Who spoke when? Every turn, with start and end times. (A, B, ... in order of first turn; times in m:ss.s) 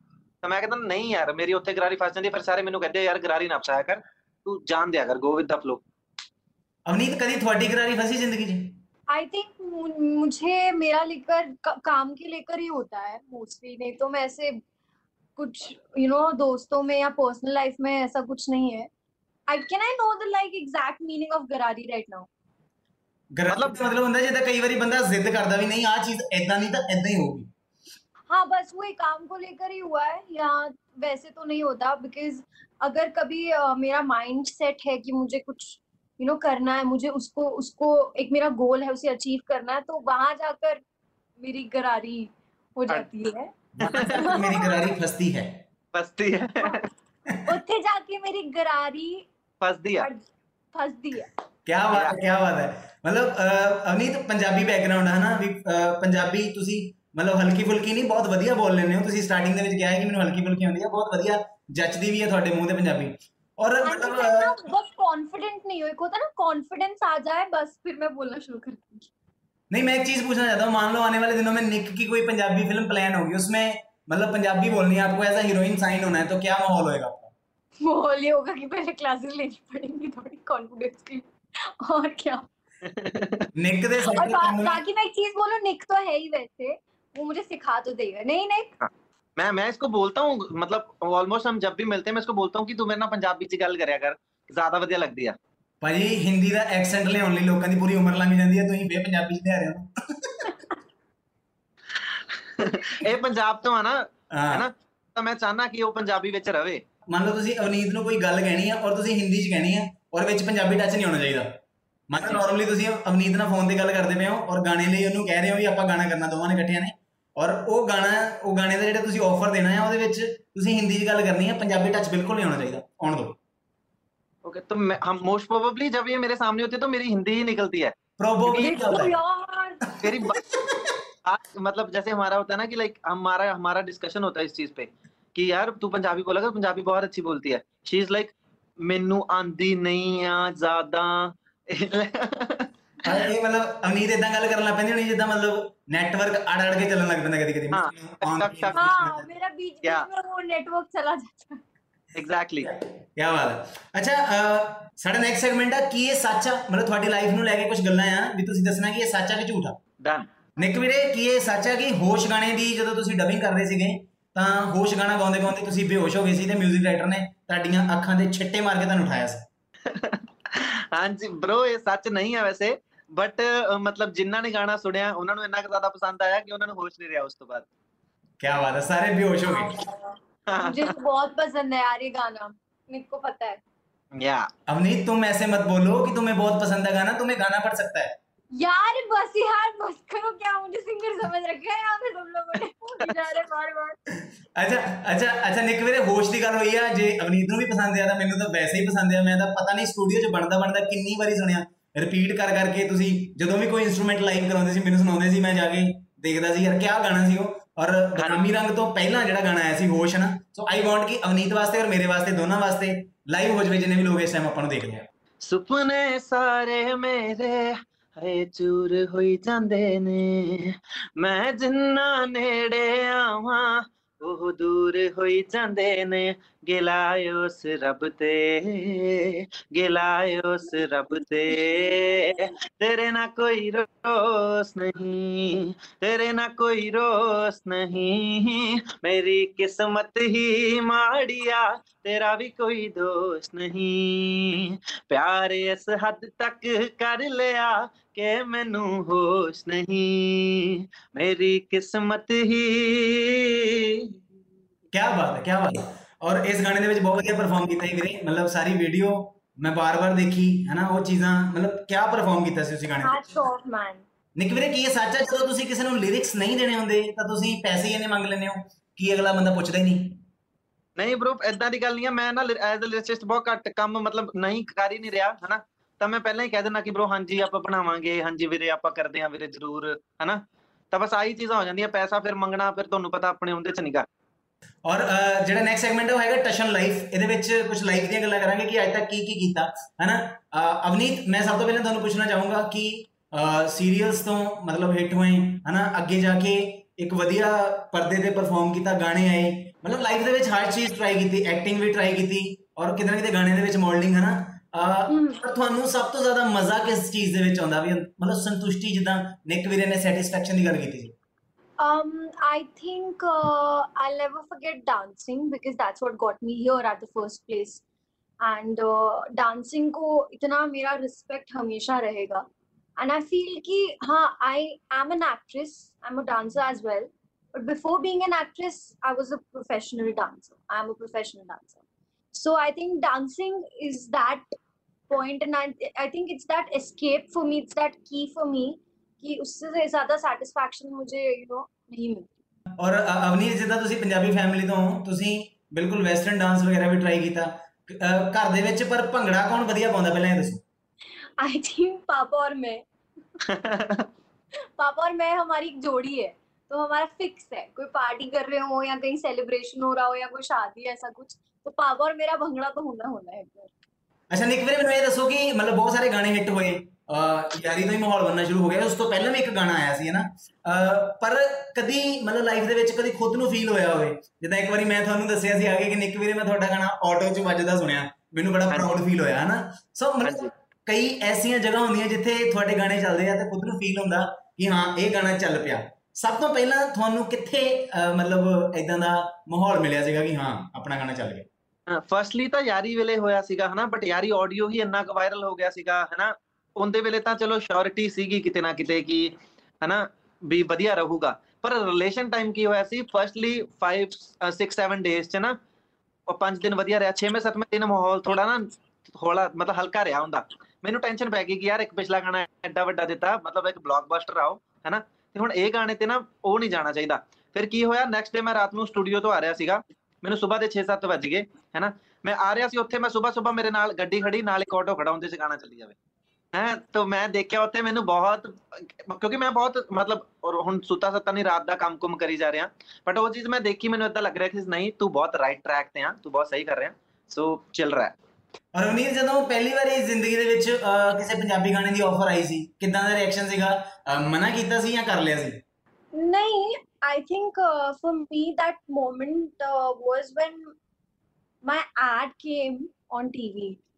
0:00.4-0:05.8 A
0:06.9-0:08.8 B
0:09.1-0:14.6 C
0:15.4-0:18.9 C
0:19.5-0:22.3 C
0:23.4-0:27.5 B
0:23.5-0:23.8 A
0:28.3-0:40.8 C
0:41.4-0:43.5 C
0:43.8-0:45.6 B
0:43.8-0:44.4 A
0:44.1-0:44.8 C
0:45.9-0:46.8 A
0:47.4-0:49.2 C
0:49.6-0:50.1 A
0:50.0-0:51.3 C
0:51.6-1:04.6 B
0:51.9-0:52.2 A
1:03.8-1:09.1 C
1:09.7-1:17.3 B
1:17.8-1:22.4 C
1:22.8-1:23.5 A
1:23.5-1:24.8 B
1:24.1-1:28.7 C
1:28.8-1:35.4 A
1:35.8-1:40.6 B
1:42.3-1:46.8 A
1:44.3-1:44.6 B
1:47.1-1:51.5 B
1:52.1-2:03.4 B
2:04.4-2:08.0 A
2:08.2-2:09.1 B
2:08.5-2:08.7 A
2:08.6-2:09.8 C
2:10.0-2:10.4 A
2:10.0-2:10.9 B
2:11.2-2:23.2 A
2:23.0-2:29.0 B
2:27.7-2:29.2 A
2:28.7-2:31.6 C
2:32.1-2:32.7 A
2:32.6-2:39.8 B
2:40.0-2:40.3 A
2:40.6-2:49.4 B
2:49.8-2:57.6 A
2:58.4-2:59.8 B
2:59.4-3:03.6 C
3:00.5-3:00.9 A
3:04.2-3:04.5 A
3:04.7-3:08.1 B
3:08.5-3:14.0 C
3:14.1-3:35.1 B
3:28.2-3:28.4 A
3:35.4-4:14.1 A
3:51.5-3:52.4 C
4:14.9-4:23.3 B
4:23.0-4:24.0 C
4:24.4-4:30.2 B
4:31.0-4:44.0 A
4:44.8-5:11.1 B
5:05.1-5:05.4 C
5:11.8-5:17.8 C
5:18.4-5:22.4 C
5:23.0-5:31.8 C
5:32.3-5:34.4 C
5:35.1-5:42.3 C
5:42.8-5:50.6 B
5:51.4-5:52.8 C
5:53.4-5:54.1 A
5:54.8-6:03.7 C
6:04.3-6:31.5 B
6:20.2-6:20.5 A
6:31.9-6:45.6 A
6:46.3-7:05.9 A
7:06.5-7:18.1 A
7:18.7-7:25.6 B
7:26.1-7:30.7 C
7:31.6-7:33.8 C